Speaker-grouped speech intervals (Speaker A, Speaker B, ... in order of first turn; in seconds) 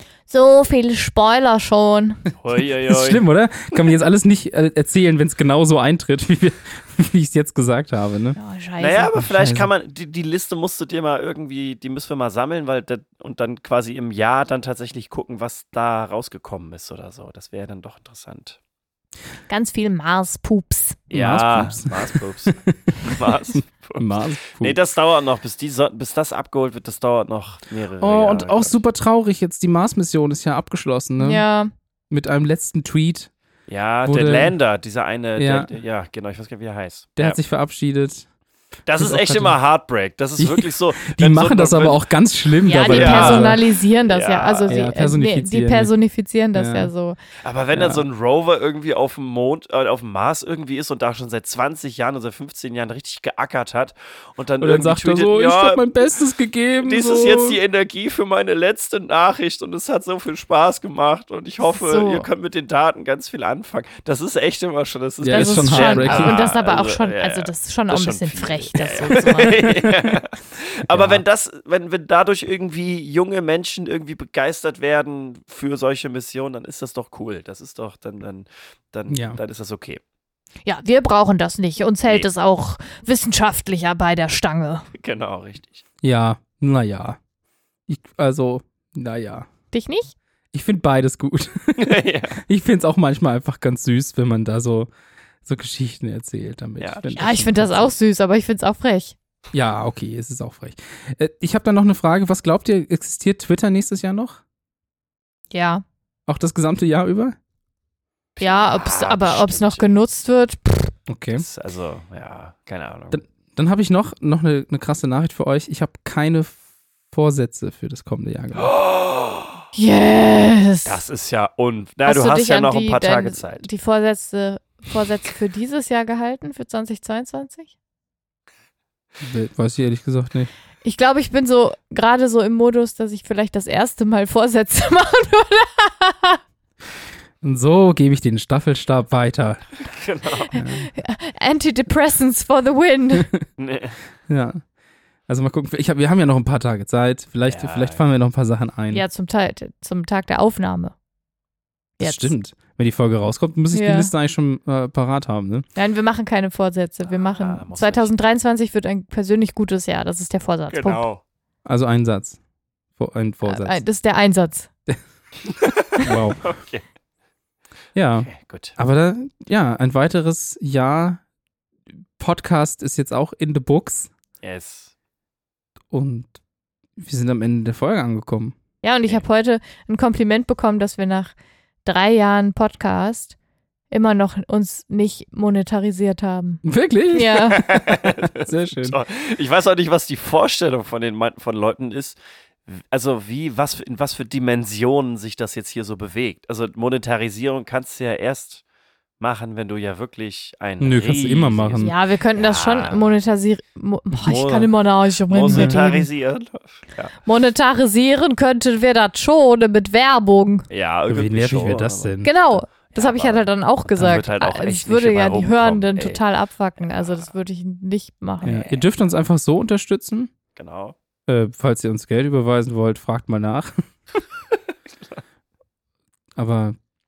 Speaker A: 0.3-2.2, 8.3-9.1, 19.5-21.0, 31.2-31.7, 42.6-47.2, 61.6-62.3, 65.3-69.7, 80.7-84.9, 89.7-90.1, 97.2-99.1, 105.5-105.8, 108.4-110.9, 119.7-121.0, 122.0-127.7, 130.8-136.4, 140.5-143.3, 148.9-150.9, 152.0-152.3, 153.7-154.1, 155.7-161.1, 163.4-164.7, 178.8-183.3, 183.9-187.6, 201.8-206.1, 207.2-210.7, 212.2-218.8
Speaker B: 2.4-3.9, 8.8-18.6, 21.1-28.8, 33.7-37.4, 38.9-42.0, 42.9-44.8, 47.4-56.1, 56.8-80.0, 84.9-85.8, 91.8-92.4, 96.8-97.2, 108.4-109.9, 111.3-113.2, 118.5-119.6, 120.8-123.7, 139.8-140.5, 143.6-144.0, 147.4-148.0, 157.1-158.1, 160.7-161.2, 165.5-166.8, 168.3-168.8, 174.4-174.9, 187.7-198.6, 199.2-203.2, 204.2-207.1, 210.7-216.2, 216.9-217.3, 220.6-220.9
Speaker C: 2.9-8.4, 9.2-9.7, 21.1-24.8, 28.0-31.4, 32.1-33.3, 34.0-34.5, 35.4-35.7, 37.2-38.3, 39.0-39.5, 40.4-43.6, 44.7-45.9, 46.5-46.9, 47.7-48.0, 54.6-57.6, 65.2-66.4, 69.8-70.2, 70.9-71.2, 79.1-79.4, 86.0-87.2, 87.9-89.5, 90.5-94.9, 95.4-97.9, 99.5-104.4, 106.3-107.3, 111.1-111.4, 113.1-116.6, 117.1-118.7, 129.2-130.5, 137.4-139.7, 140.5-140.9, 144.3-144.6, 145.3-149.0, 152.0-155.7, 161.7-162.4, 162.9-163.8, 166.0-166.4, 167.9-171.2, 172.2-174.1, 175.9-176.3, 176.9-178.6, 186.6-189.0, 200.8-201.9, 205.5-205.8, 211.1-212.3, 218.4-220.3, 221.3-223.8, 226.3-226.8